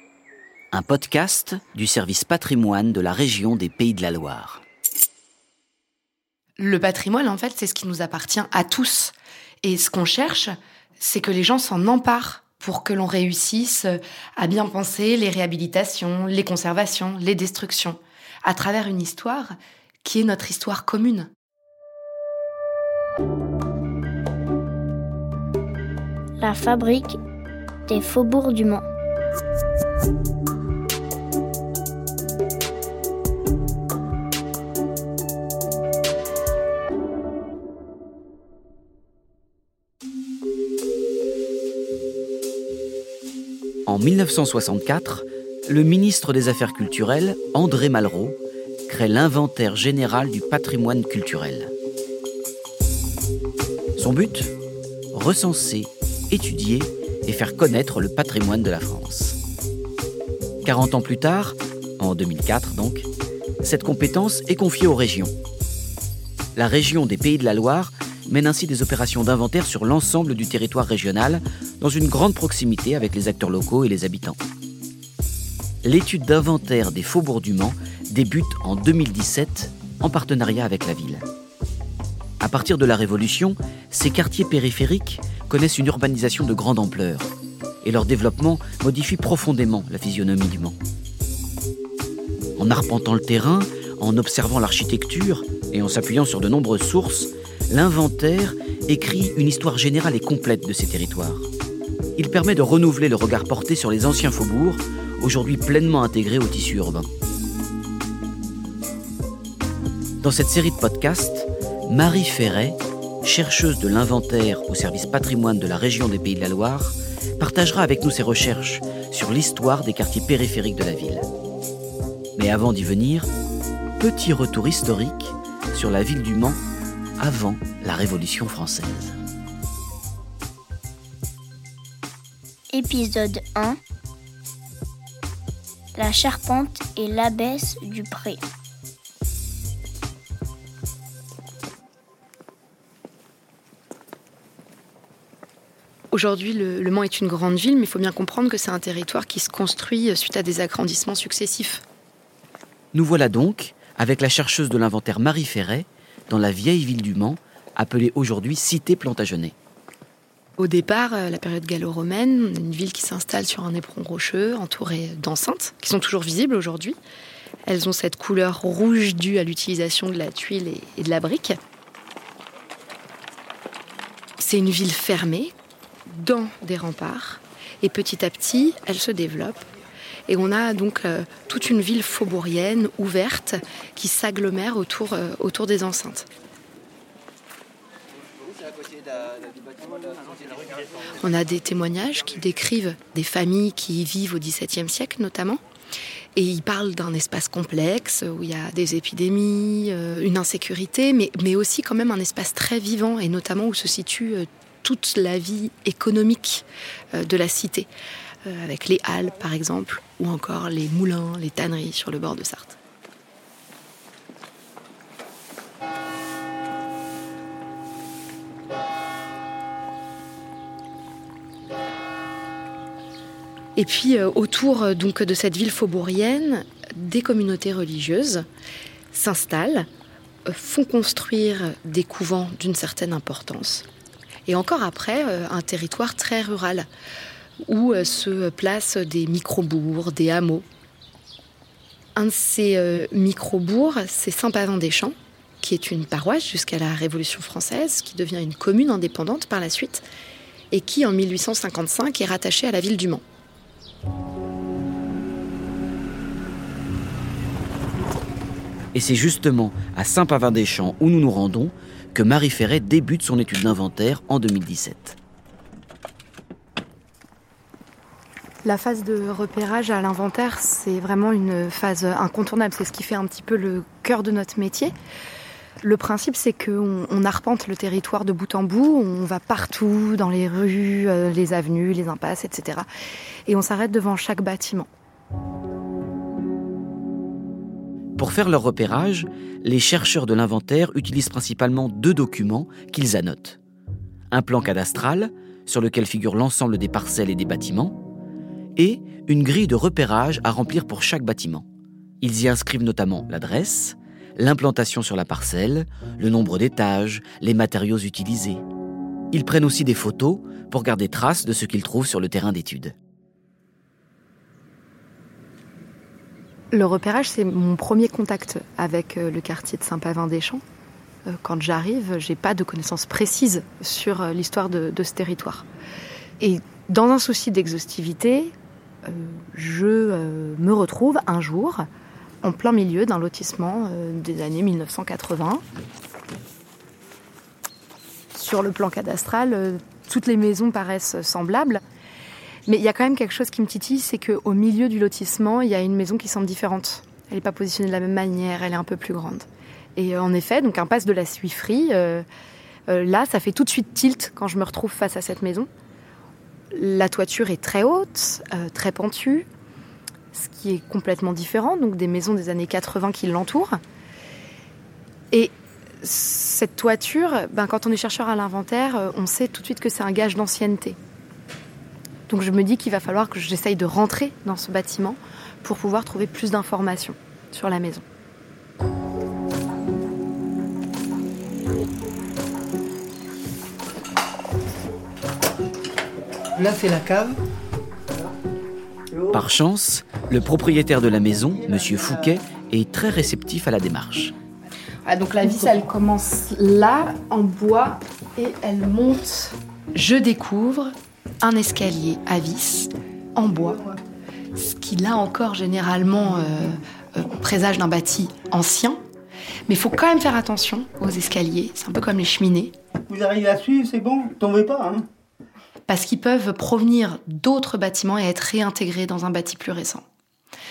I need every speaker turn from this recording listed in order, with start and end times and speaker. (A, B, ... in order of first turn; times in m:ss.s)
0:00.7-0:04.6 A
0:06.6-0:21.3 B
0:26.4-0:27.2 C
0:27.9-0:28.8 C
0:43.9-0:51.7 A
0:54.0-0:54.5 A
0:55.1-0:59.4 A
1:00.6-1:03.1 A
1:03.6-1:05.3 A
1:06.6-1:14.4 A
1:15.8-1:21.2 A
1:22.4-1:27.3 A
1:27.8-1:30.8 A
1:32.6-1:41.5 A
1:42.2-1:47.1 A
1:50.2-2:01.3 A
2:02.4-2:03.3 A
2:04.0-2:06.6 A
2:07.2-2:09.2 A
2:12.7-2:13.8 C
2:16.0-2:18.4 C
2:26.1-2:31.8 B
2:32.9-2:39.6 A
2:40.6-2:47.0 B
2:47.6-2:51.6 B
2:54.4-2:55.5 B
2:56.1-2:59.6 B
3:00.3-3:06.3 B
3:11.2-3:15.6 B
3:16.4-3:27.9 B
3:28.4-3:32.8 B
3:43.8-3:48.5 B
3:49.1-3:49.9 B
3:50.5-3:53.9 B
3:54.5-3:56.9 B
3:57.6-4:00.6 B
4:02.2-4:10.0 B
4:10.7-4:13.2 B
4:18.9-4:25.2 A
4:28.6-4:34.9 B
4:35.8-4:42.9 B
4:43.5-4:44.9 B
4:48.2-4:53.6 A
4:54.3-4:58.0 A
4:58.8-5:01.7 A
5:02.2-5:08.6 A
5:09.3-5:13.0 A
5:16.7-5:20.6 B
5:21.3-5:25.7 B
5:26.4-5:28.5 B
5:29.0-5:31.9 B
5:32.4-5:35.6 B
5:38.3-5:41.8 B
5:42.7-5:52.2 B
5:52.9-5:55.7 B
5:56.7-5:59.5 B
6:00.3-6:03.8 B
6:05.3-6:11.0 B
6:12.3-6:18.0 B
6:26.6-6:27.4 D
6:29.1-6:29.4 D
6:29.3-6:34.3 A
6:35.0-6:43.8 B
6:43.6-6:44.0 D
6:44.6-6:49.0 B
6:49.7-6:52.7 B
6:53.1-6:55.1 D
6:55.9-7:00.0 B